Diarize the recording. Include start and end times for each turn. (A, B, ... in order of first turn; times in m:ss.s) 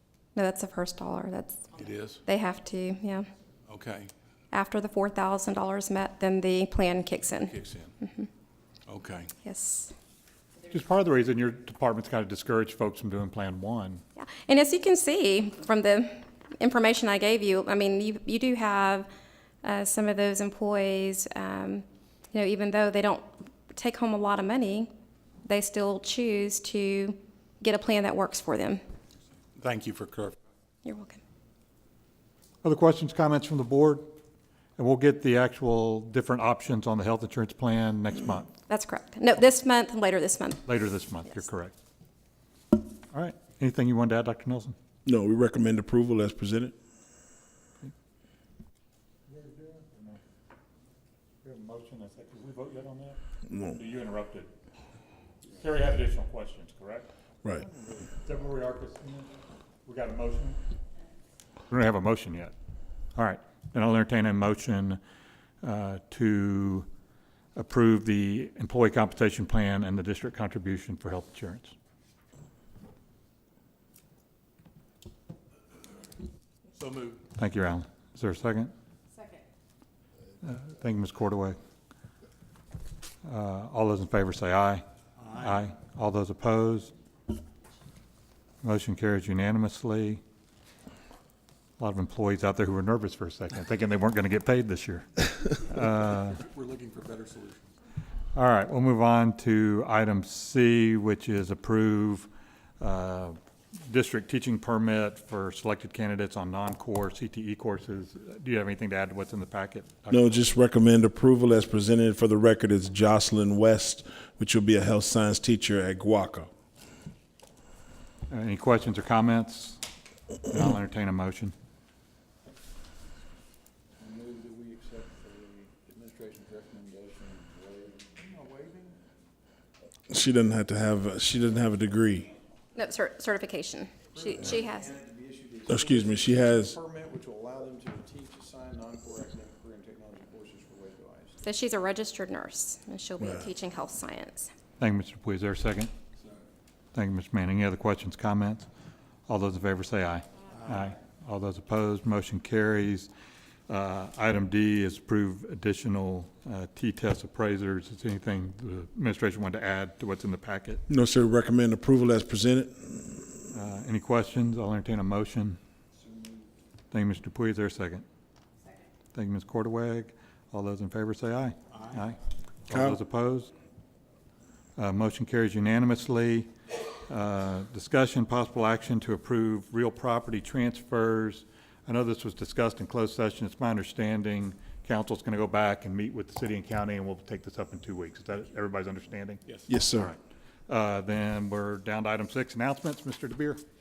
0:00.3-0:01.7 A
0:01.7-0:02.2 B
0:02.2-0:03.2 A
0:03.7-0:04.1 B
0:04.5-0:08.3 A
0:07.4-0:07.9 B
0:08.9-0:09.3 B
0:09.4-0:09.9 A
0:10.7-0:14.0 C
0:14.2-0:19.1 A
0:19.6-0:24.9 A
0:25.4-0:28.8 A
0:29.6-0:30.4 B
0:30.8-0:31.2 A
0:32.6-0:34.1 C
0:34.8-0:38.5 C
0:38.7-0:40.6 A
0:40.7-0:41.7 C
0:43.1-0:44.7 C
0:45.0-0:46.7 D
0:49.3-0:50.2 C
0:51.4-0:54.5 C
0:53.5-0:53.8 D
0:55.5-0:59.3 C
0:59.8-1:00.6 C
1:01.7-1:02.5 C
1:03.1-1:05.0 C
1:05.6-1:06.8 C
1:07.5-1:11.7 C
1:16.8-1:17.2 B
1:17.4-1:18.7 C
1:20.4-1:21.6 C
1:23.2-1:26.9 C
1:28.6-1:30.2 C
1:31.8-1:36.4 C
1:36.3-1:37.7 B
1:38.3-1:42.3 C
1:42.8-1:50.3 C
1:50.1-1:56.5 D
1:58.3-1:59.8 C
2:00.5-2:01.5 C
2:04.0-2:09.0 E
2:10.1-2:12.3 D
2:12.8-2:14.9 A
2:14.1-2:21.4 E
2:15.7-2:16.8 D
2:21.4-2:24.5 A
2:24.8-2:25.9 C
2:26.9-2:28.7 C
2:29.3-2:33.1 C
2:33.7-2:40.8 C
2:40.9-2:43.2 D
2:43.5-2:45.6 C
2:45.9-2:46.5 E
2:46.9-2:48.0 C
2:49.1-2:53.5 C
2:52.7-2:53.0 D
2:54.8-2:56.5 C
2:57.1-3:09.4 C
3:09.7-3:10.1 D
3:10.7-3:13.6 C